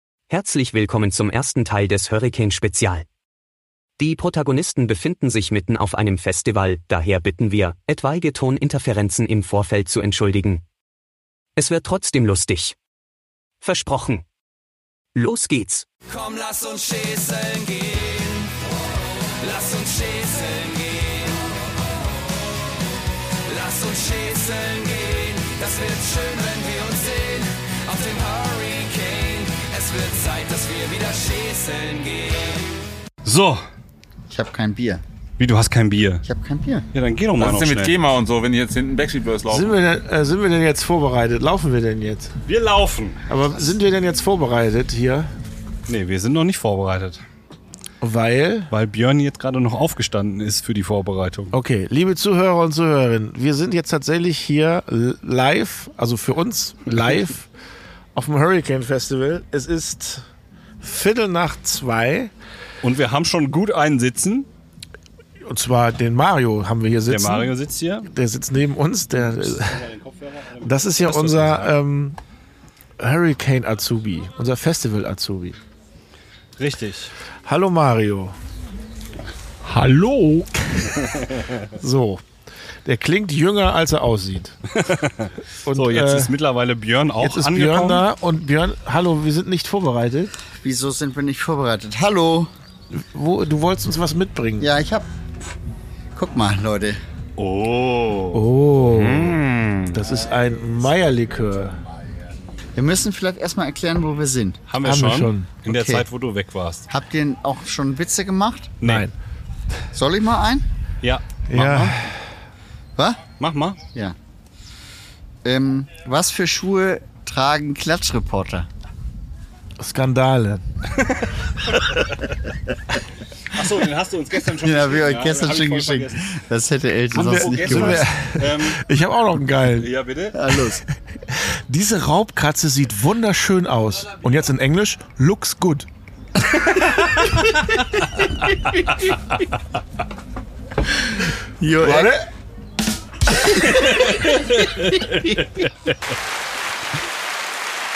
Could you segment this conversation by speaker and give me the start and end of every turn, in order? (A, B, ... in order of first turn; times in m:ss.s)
0:00.3-0:03.1 A
0:04.0-0:10.6 A
0:11.6-0:12.8 A
0:13.6-0:14.2 A
0:15.1-0:15.8 A
0:16.1-0:18.6 B
0:19.4-0:21.4 B
0:23.5-0:32.7 B
0:33.2-0:33.6 C
0:34.3-0:35.0 D
0:35.4-0:36.2 C
0:36.2-0:36.9 D
0:36.9-0:38.0 C
0:37.4-0:39.7 E
0:39.5-0:42.3 F
0:42.4-0:43.2 C
0:43.3-0:45.3 F
0:45.9-0:47.2 C
0:48.0-0:48.7 F
0:48.7-0:51.5 C
0:51.5-0:57.5 F
0:58.2-1:00.3 F
1:00.8-1:02.3 F
1:02.8-1:04.5 C
1:05.4-1:07.5 F
1:07.1-1:08.1 C
1:08.0-1:09.9 F
1:09.2-1:11.7 C
1:10.6-1:12.2 F
1:13.0-1:15.6 F
1:16.6-1:17.1 C
1:17.4-1:18.4 F
1:19.6-1:20.5 E
1:21.7-1:22.2 F
1:22.8-1:24.6 F
1:24.8-1:28.0 C
1:25.6-1:26.3 F
1:27.2-1:30.3 F
1:30.6-1:32.5 D
1:32.9-1:34.7 F
1:34.6-1:35.1 D
1:36.2-1:37.0 D
1:37.4-1:38.4 C
1:38.3-1:39.4 F
1:38.9-1:39.9 E
1:39.9-1:41.8 F
1:42.8-1:44.6 D
1:44.7-1:46.9 C
1:44.8-1:45.6 F
1:45.7-1:46.0 D
1:46.9-1:48.8 D
1:48.8-1:49.1 C
1:48.8-1:49.1 F
1:49.9-1:50.7 D
1:51.0-1:52.0 C
1:51.5-1:52.3 F
1:53.0-1:53.2 D
1:53.4-1:53.8 C
1:55.4-1:58.7 D
1:59.8-2:00.6 F
2:03.5-2:06.2 C
2:04.6-2:08.1 D
2:07.1-2:08.8 C
2:07.1-2:09.9 F
2:09.8-2:10.4 C
2:10.3-2:10.8 D
2:11.3-2:15.9 F
2:21.6-2:22.2 D
2:21.8-2:22.3 F
2:23.5-2:25.9 C